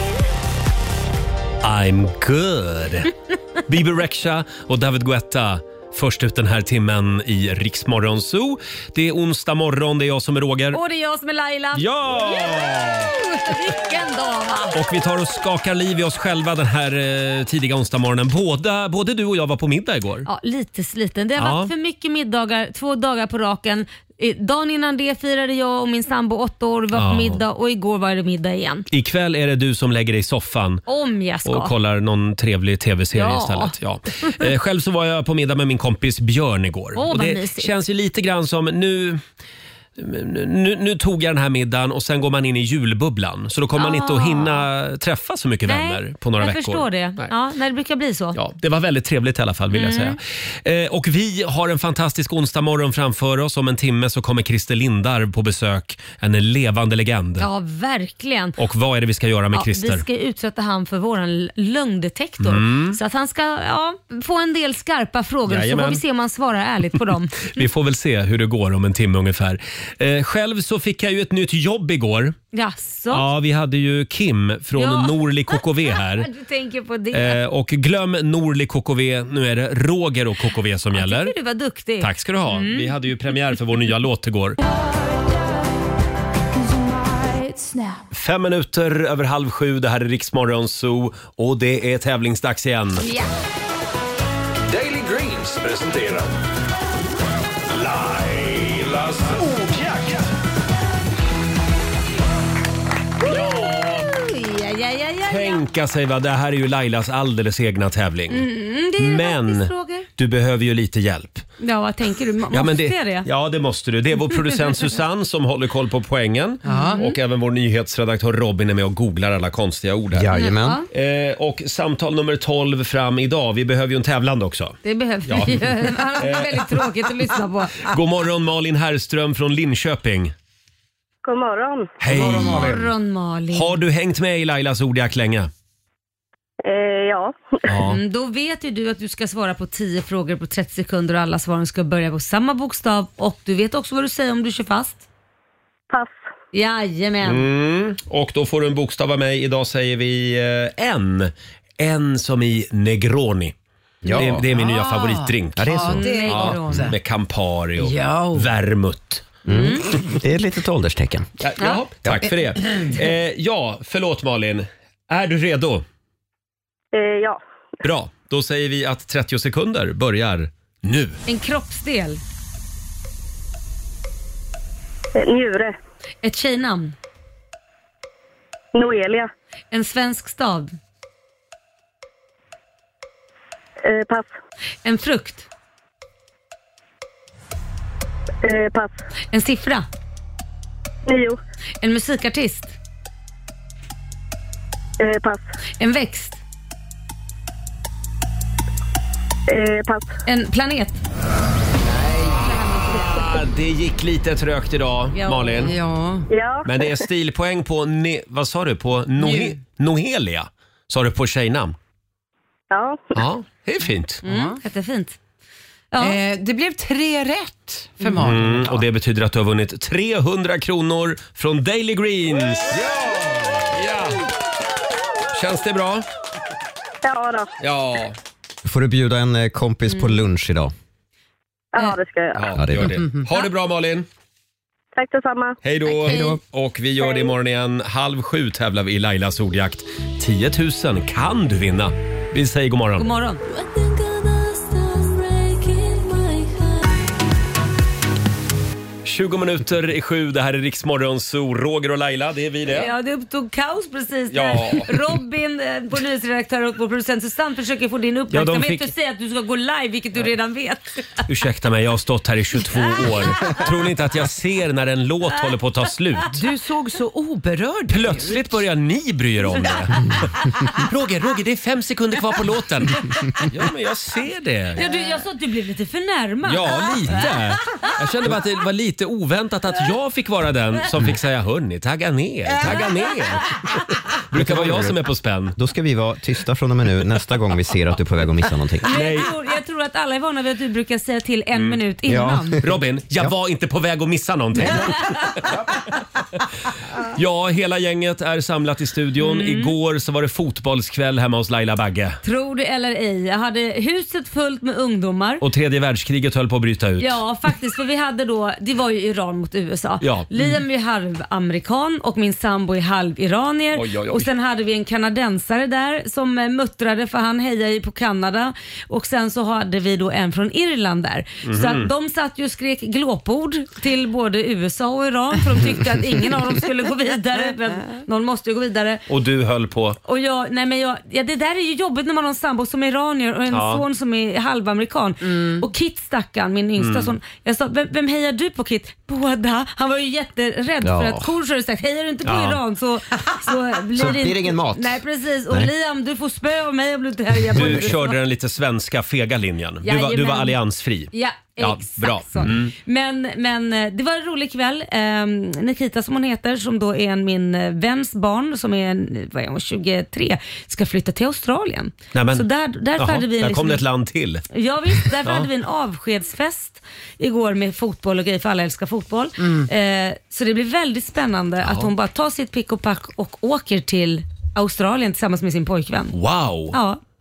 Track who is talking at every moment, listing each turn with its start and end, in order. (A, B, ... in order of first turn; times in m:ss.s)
0:01.6-0:03.1 A
0:03.7-0:10.8 A
0:10.7-0:14.8 B
0:11.8-0:13.2 A
0:14.7-0:20.3 A
0:20.3-0:28.9 B
0:21.4-0:21.7 A
0:26.9-0:27.4 A
0:28.9-0:30.8 A
0:30.9-0:31.7 B
0:31.4-0:39.2 A
0:33.1-0:34.4 B
0:37.0-0:37.7 B
0:40.0-0:47.3 A
0:43.8-0:44.7 B
0:45.7-0:48.4 B
0:48.3-0:57.5 A
0:49.7-0:50.2 B
0:57.4-0:58.6 B
0:58.6-1:00.0 A
0:59.5-1:07.7 B
1:02.4-1:03.0 A
1:05.5-1:06.0 A
1:07.5-1:12.4 A
1:12.5-1:13.2 B
1:13.1-1:16.3 A
1:14.8-1:17.4 B
1:17.1-1:21.3 A
1:21.0-1:23.0 B
1:22.0-1:24.6 A
1:24.8-1:25.4 C
1:26.7-1:27.9 C
1:28.1-1:33.1 A
1:34.7-1:36.3 D
1:37.7-1:40.3 D
1:43.2-1:45.6 B
1:45.3-1:48.5 A
1:48.3-1:50.1 B
1:49.0-1:51.4 A
1:51.6-1:53.3 B
1:52.5-2:00.3 A
1:54.4-1:54.8 B
1:56.6-1:57.0 E
1:56.6-1:57.1 B
2:00.1-2:00.8 F
2:00.3-2:00.9 B
2:00.9-2:05.6 A
2:04.8-2:07.8 B
2:06.2-2:06.7 A
2:07.8-2:10.3 A
2:11.2-2:12.0 G
2:12.0-2:12.9 A
2:12.1-2:12.6 F
2:12.2-2:13.8 B
2:13.5-2:15.5 A
2:16.6-2:17.7 G
2:17.7-2:18.0 A
2:17.8-2:25.0 B
2:25.9-2:26.2 G
2:26.5-2:27.5 B
2:27.2-2:33.5 A
2:34.0-2:34.5 F
2:34.0-2:37.0 E
2:34.1-2:39.3 A
2:35.6-2:36.9 F
2:36.0-2:36.7 B
2:37.8-2:38.5 E
2:39.5-2:41.3 F
2:39.5-2:39.8 B
2:41.4-2:45.8 A
2:42.0-2:42.3 F
2:46.9-2:47.4 G
2:47.8-2:51.2 A
2:51.3-2:52.2 B
2:55.2-2:55.8 G
2:56.2-2:57.0 B
2:58.8-2:59.3 G
2:59.7-3:00.8 B
3:03.8-3:04.3 G
3:04.8-3:05.5 B
3:08.4-3:09.0 G
3:09.3-3:09.9 B
3:11.1-3:11.4 G
3:11.8-3:12.8 B
3:15.0-3:15.4 G
3:15.8-3:16.4 B
3:19.5-3:20.1 G
3:20.3-3:21.0 B
3:22.5-3:23.1 B
3:22.9-3:25.7 A
3:25.2-3:25.8 B
3:25.6-3:26.3 E
3:26.3-3:26.9 G
3:26.7-3:31.8 A
3:29.2-3:29.6 E
3:32.7-3:33.2 G
3:33.2-3:34.2 A
3:34.2-3:34.6 E
3:34.2-3:35.2 B
3:35.9-3:36.2 B
3:36.0-3:38.8 E
3:38.0-3:38.2 B
3:38.2-3:44.3 A
3:45.3-3:46.1 A
3:47.0-3:47.5 G
3:47.6-3:48.2 A
3:48.6-3:50.7 F
3:51.7-3:52.6 G
3:52.4-3:54.1 A
3:52.6-3:53.1 F
3:55.0-3:55.6 G
3:55.6-4:03.1 A
3:56.0-3:56.4 F
3:56.0-3:56.4 B
4:03.0-4:03.4 B
4:03.6-4:05.6 C
4:09.0-4:12.9 A
4:12.7-4:20.8 B
4:14.3-4:15.0 A
4:18.3-4:18.9 A
4:21.3-4:26.4 A
4:23.0-4:23.6 B
4:26.4-4:28.6 E
4:27.9-4:34.8 A
4:34.8-4:37.9 B
4:36.5-4:43.8 A
4:44.3-4:45.6 A
4:44.3-4:45.0 F
4:45.6-4:48.9 F
4:48.8-4:52.6 B
4:48.9-4:49.3 A
4:51.5-4:51.8 A
4:52.1-4:53.3 F
4:52.6-4:55.6 A
4:54.6-4:55.2 F
4:57.0-5:02.2 A
4:59.2-4:59.7 B
5:02.2-5:05.4 B
5:05.4-5:07.2 A
5:07.0-5:29.0 B
5:10.0-5:10.3 A
5:13.8-5:14.3 A
5:21.4-5:21.9 A
5:29.1-5:30.0 A
5:30.1-5:48.2 B
5:33.5-5:33.8 A
5:35.3-5:35.6 E
5:36.8-5:37.2 A
5:40.8-5:41.3 F
5:42.2-5:42.6 A
5:44.0-5:45.7 F
5:47.6-5:52.7 A
5:49.8-5:50.6 B
5:51.1-6:03.8 B
6:02.1-6:02.4 A
6:03.0-6:04.4 A
6:04.5-6:16.2 B
6:05.0-6:05.5 A
6:09.4-6:09.7 E
6:11.6-6:11.9 A
6:16.1-6:16.8 A
6:16.7-6:17.0 B